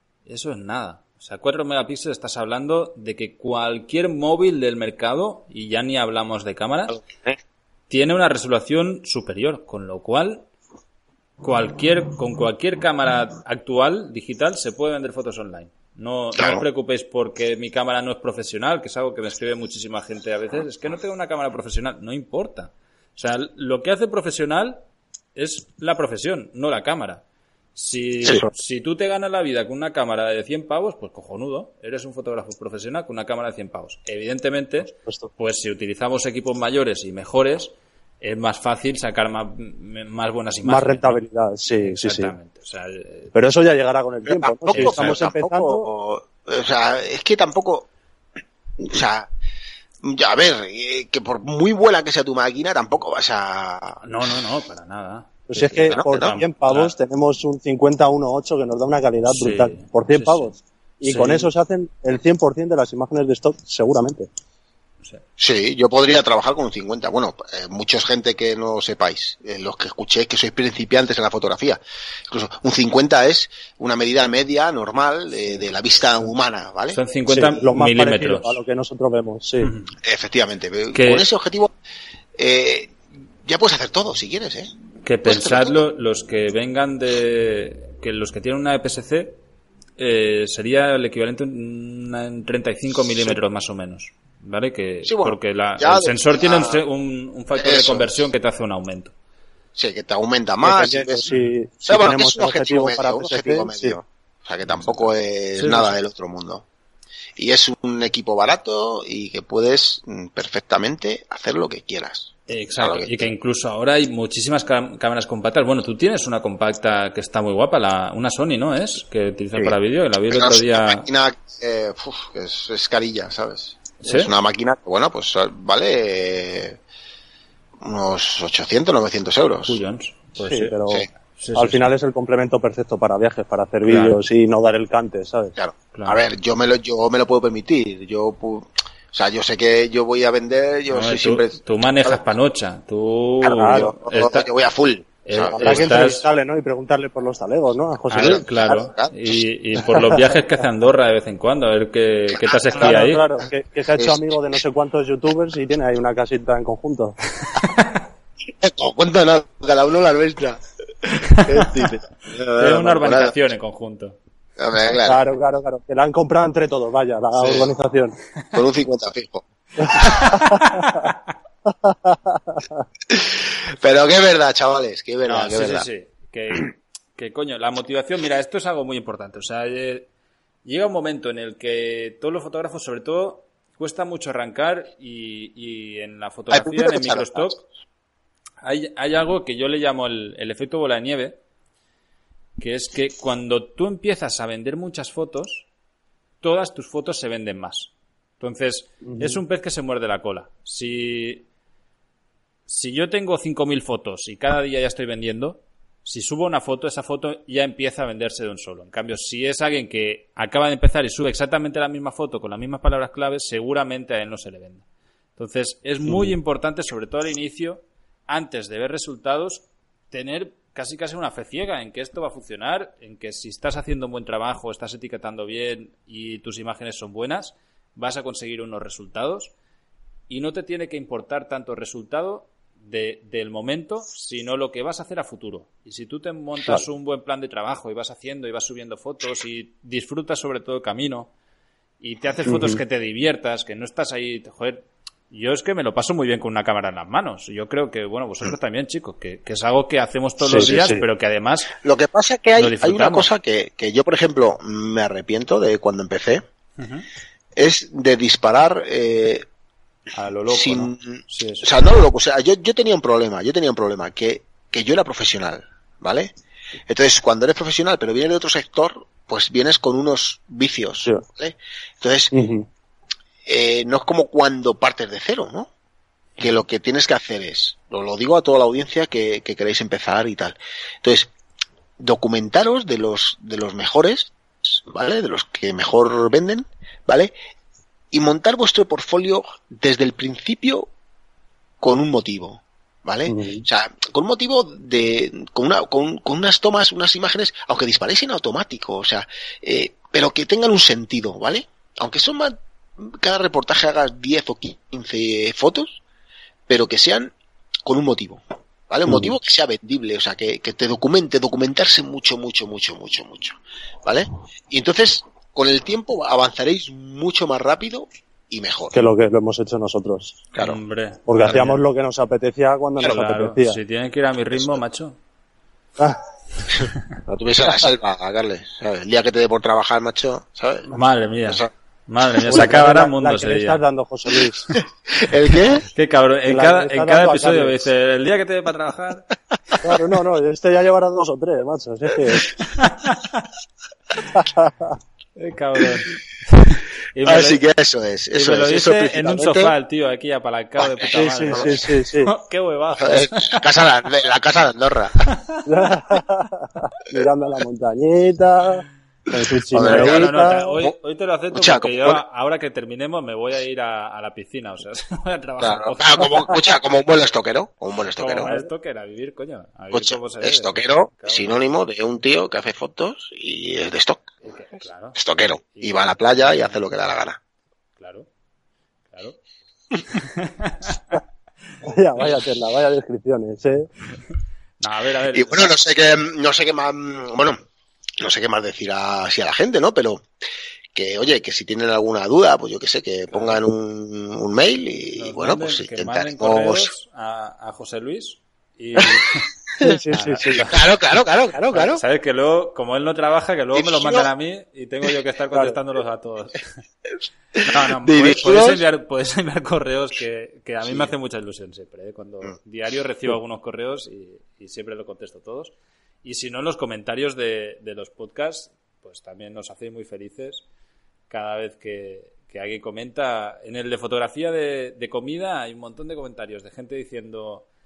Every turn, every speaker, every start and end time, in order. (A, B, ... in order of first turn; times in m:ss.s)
0:00.3-0:07.0 A
0:06.9-0:07.4 B
0:07.9-0:10.5 A
0:11.4-0:24.8 A
0:16.4-0:16.6 B
0:25.4-0:27.2 A
0:27.8-0:41.2 A
0:28.2-0:28.5 B
0:34.8-0:35.3 C
0:40.6-0:42.3 C
0:41.8-0:43.3 A
0:43.4-0:45.9 C
0:44.3-0:47.9 B
0:44.7-0:45.2 A
0:48.8-0:49.3 B
0:50.0-0:54.0 B
0:54.0-0:57.0 A
0:55.5-1:04.3 C
0:55.7-0:56.4 B
0:59.3-1:00.5 A
1:01.0-1:01.5 A
1:05.4-1:17.0 B
1:16.9-1:18.6 A
1:17.3-1:19.7 C
1:19.6-1:19.9 A
1:20.0-1:21.7 B
1:20.9-1:21.3 A
1:22.4-1:24.7 B
1:25.0-1:29.4 A
1:25.2-1:25.8 B
1:30.0-1:39.1 A
1:35.1-1:36.8 B
1:37.5-1:38.1 B
1:39.8-1:41.3 B
1:40.6-1:44.0 C
1:41.8-1:46.6 B
1:44.7-1:46.0 A
1:47.4-1:53.3 B
1:52.5-2:01.1 A
2:00.3-2:06.8 B
2:04.0-2:04.3 A
2:07.8-2:09.8 B
2:09.6-2:10.8 A
2:10.4-2:15.5 C
2:11.3-2:11.9 A
2:13.8-2:14.2 A
2:15.6-2:22.2 B
2:15.9-2:16.2 A
2:20.9-2:24.5 A
2:23.4-2:26.2 B
2:23.5-2:23.9 C
2:25.3-2:26.3 A
2:25.6-2:28.4 C
2:28.1-2:33.2 A
2:28.1-2:29.4 B
2:32.4-2:33.1 B
2:32.8-2:37.2 C
2:33.9-2:34.4 B
2:37.6-2:37.9 A
2:38.6-2:43.4 B
2:41.4-2:41.9 A
2:42.6-2:44.2 A
2:44.6-2:45.2 B
2:45.1-2:48.2 C
2:47.4-2:47.7 B
2:48.5-2:50.4 B
2:49.8-2:51.1 C
2:50.2-2:51.3 A
2:51.7-2:52.8 C
2:53.1-2:55.9 B
2:55.2-3:00.1 A
3:00.6-3:07.6 A
3:06.5-3:07.6 B
3:08.6-3:11.4 A
3:12.6-3:15.7 A
3:16.4-3:21.5 A
3:19.1-3:19.4 C
3:22.7-3:34.8 A
3:35.4-3:49.5 A
3:50.3-4:01.3 A
4:02.0-4:11.7 A
4:02.5-4:02.8 C
4:10.4-4:11.0 C
4:11.8-4:16.4 B
4:12.6-4:13.3 A
4:16.8-4:17.1 A
4:17.6-4:19.4 B
4:20.2-4:21.7 A
4:20.5-4:26.3 B
4:26.9-4:32.3 B
4:32.3-4:32.7 C
4:33.5-4:35.7 B
4:36.4-4:41.3 B
4:42.0-4:44.3 B
4:44.9-4:47.3 B
4:48.1-4:50.9 B
4:51.8-5:06.0 B
4:53.3-4:53.7 C
5:06.7-5:07.3 B
5:07.9-5:19.0 B
5:09.1-5:09.3 C
5:18.9-5:20.4 C
5:20.6-5:21.8 A
5:21.3-5:23.8 C
5:23.0-5:25.2 A
5:26.7-5:30.9 B
5:30.9-5:33.8 A
5:32.3-5:32.9 B
5:32.5-5:34.6 C
5:35.1-5:35.8 B
5:35.8-5:39.3 A
5:36.5-5:37.9 C
5:39.8-5:42.6 C
5:42.7-5:43.5 A
5:44.2-5:44.9 C
5:45.4-5:47.6 A
5:47.2-5:49.7 B
5:48.3-5:53.6 A
5:50.9-5:51.8 B
5:51.1-5:52.3 C
5:53.0-5:55.3 B
5:55.4-5:55.6 A
5:55.6-6:00.7 C
5:59.7-6:00.9 B
5:59.8-6:06.5 A
6:01.5-6:02.2 B
6:05.6-6:08.5 B
6:08.2-6:11.6 A
6:09.9-6:14.3 B
6:14.4-6:15.2 A
6:15.2-6:17.4 B
6:15.7-6:16.8 A
6:18.0-6:18.3 A
6:19.1-6:19.4 A
6:20.1-6:21.2 A
6:21.8-6:23.9 C
6:24.8-6:25.8 A
6:25.3-6:27.6 B
6:28.2-6:30.3 B
6:30.9-6:36.9 B
6:33.3-6:33.6 A
6:35.2-6:39.4 A
6:39.8-6:40.7 C
6:39.8-6:42.0 B
6:40.1-6:40.8 A
6:41.7-6:46.8 A
6:43.7-6:44.3 B
6:47.6-6:48.8 B
6:47.6-7:00.6 A
6:50.8-6:51.1 B
7:01.3-7:07.7 A